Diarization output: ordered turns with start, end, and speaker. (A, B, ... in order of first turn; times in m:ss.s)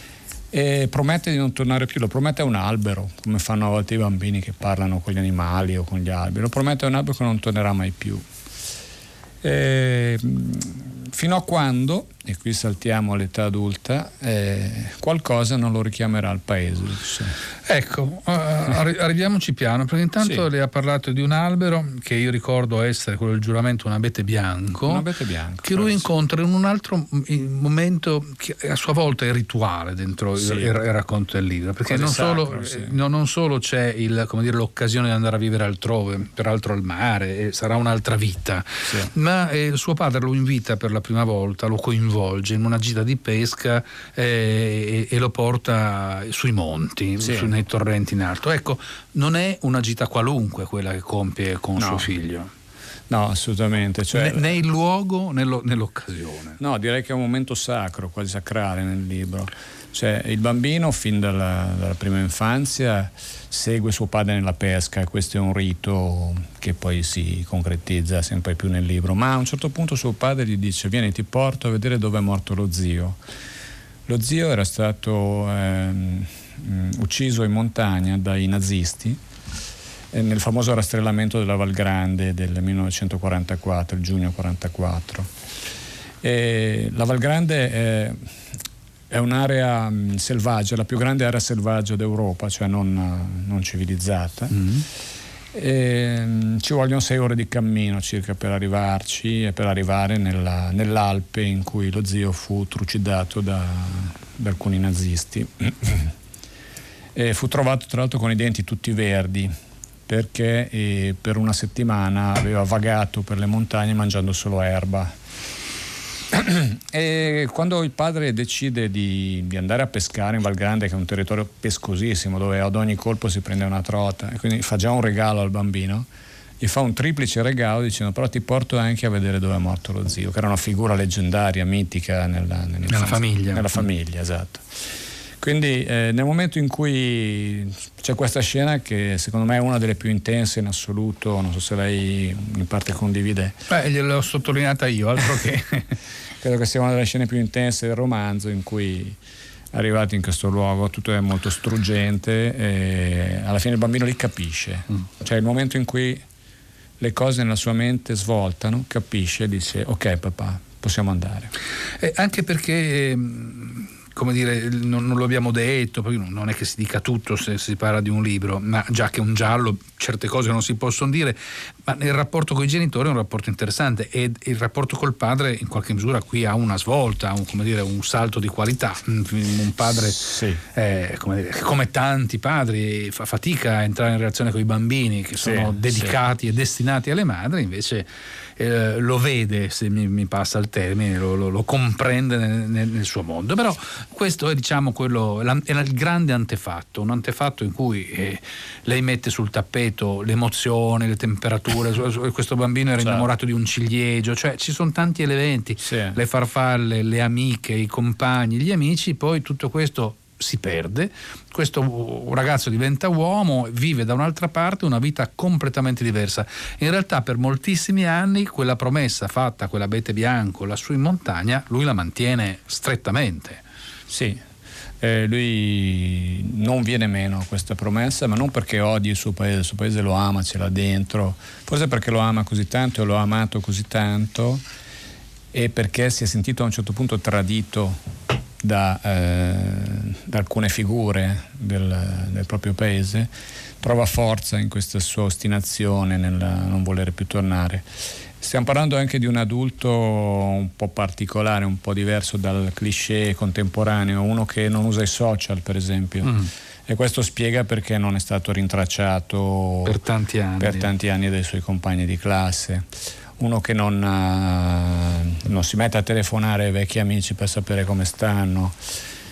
0:00.5-0:08.3 A
0:09.4-0:17.4 A
0:17.7-0:25.1 B
0:24.9-0:26.1 A
0:25.6-0:52.5 B
0:30.4-0:30.7 A
0:31.9-0:33.0 A
0:38.8-0:39.1 A
0:47.2-0:47.5 A
0:51.8-0:52.1 A
0:53.1-0:54.5 A
0:54.1-0:56.6 B
0:56.6-1:13.2 A
1:14.1-1:19.2 A
1:20.1-1:25.3 A
1:26.2-1:28.4 A
1:29.1-1:34.7 A
1:34.5-1:34.9 B
1:35.5-1:46.1 A
1:47.2-1:49.5 A
1:50.1-1:55.1 A
1:56.3-2:06.1 A
2:06.6-2:14.6 A
2:12.9-2:13.8 B
2:15.4-2:23.6 A
2:23.7-2:25.9 B
2:26.4-2:29.2 A
2:29.7-2:36.2 A
2:37.0-2:41.5 A
2:42.0-3:08.1 B
3:00.2-3:00.6 A
3:05.4-3:06.2 A
3:08.6-3:43.6 B
3:23.0-3:23.3 A
3:25.8-3:26.2 A
3:44.1-3:44.4 A
3:45.0-3:54.6 A
3:55.5-3:58.0 A
3:58.6-4:03.3 A
4:03.8-4:20.0 A
4:16.2-4:16.5 B
4:19.8-4:20.9 B
4:20.6-4:28.8 A